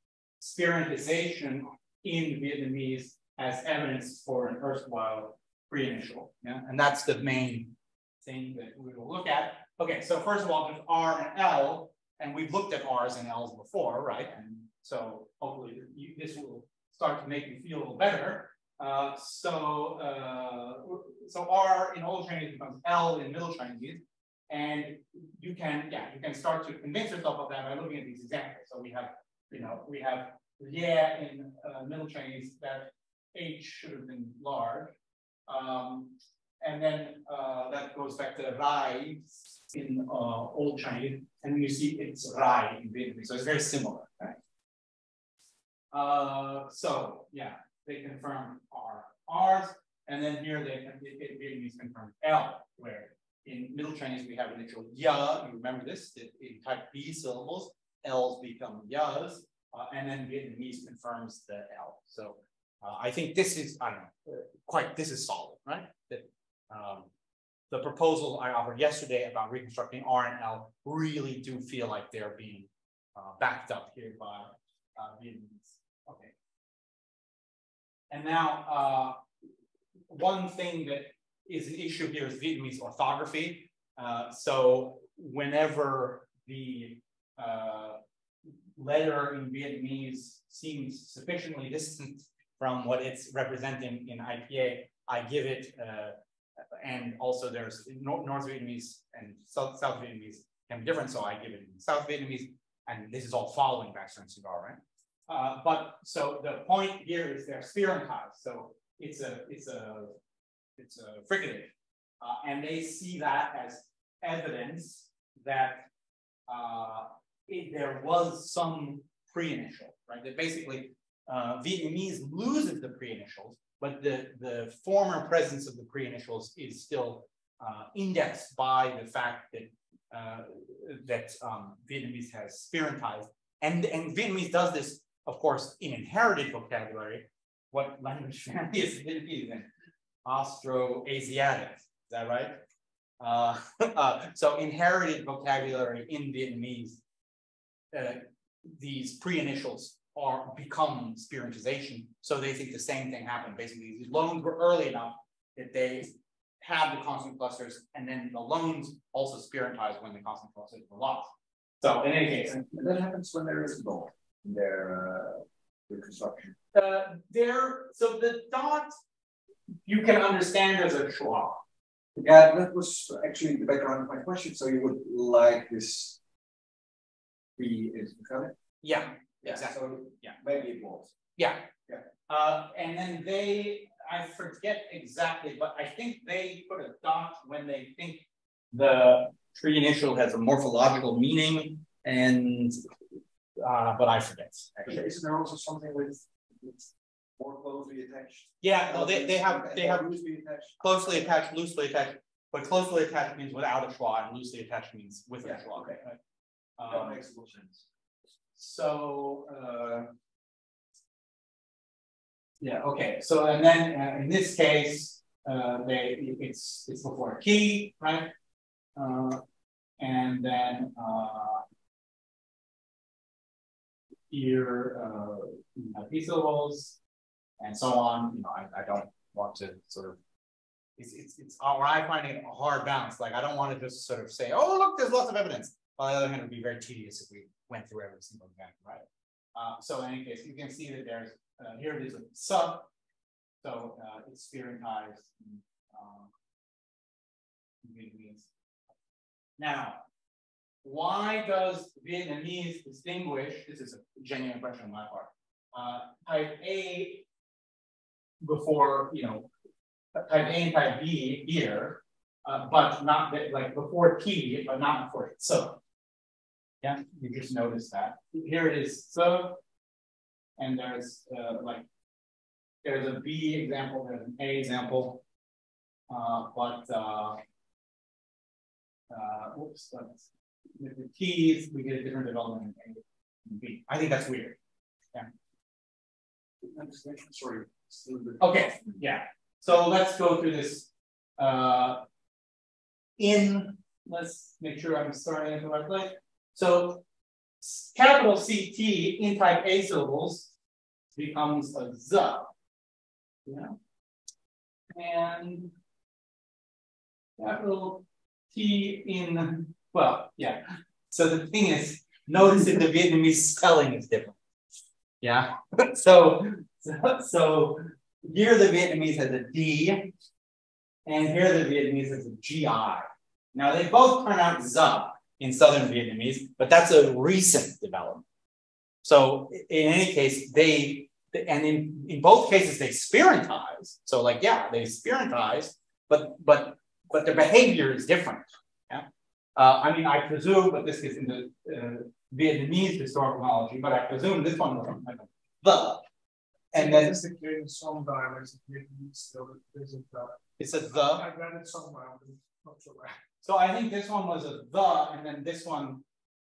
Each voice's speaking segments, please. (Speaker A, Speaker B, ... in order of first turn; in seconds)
Speaker A: 0.4-34.9, 35.5-44.4, 45.9-67.1, 67.7-76.3, 78.1-79.2, 80.1-88.0, 88.8-96.1, 96.8-110.2, 110.8-115.9, 116.5-139.7, 140.2-142.6, 143.2-147.0, 147.9-162.5, 166.7-168.9, 169.8-171.6, 178.8-180.4, 181.4-181.7, 182.3-192.8, 193.6-195.0, 198.6-200.1, 200.8-206.2, 206.8-207.2, 208.6-210.1, 212.6-218.3, 218.9-219.4, 220.0-221.6, 224.3-227.0, 227.6-230.2, 231.0-242.9, 243.6-246.3, 247.8-248.5, 249.6-250.0, 250.8-257.2, 258.4-259.5, 260.1-265.8, 266.8-269.6, 270.6-271.8, 272.8-275.2, 276.1-277.4, 279.1-280.3, 280.8-284.6, 288.4-292.0, 293.2-297.0, 297.6-300.5, 301.1-302.5, 303.4-303.7, 304.9-305.7, 307.4-314.4, 315.2-320.1, 321.1-328.2, 329.0-346.0, 346.7-347.1, 350.6-351.2, 353.4-356.0
Speaker B: 162.4-166.5, 172.2-176.2, 177.6-178.5, 179.4-181.1, 194.8-196.8, 197.4-201.3, 205.4-206.0, 206.8-207.8, 286.7-288.8
Speaker C: 346.7-353.2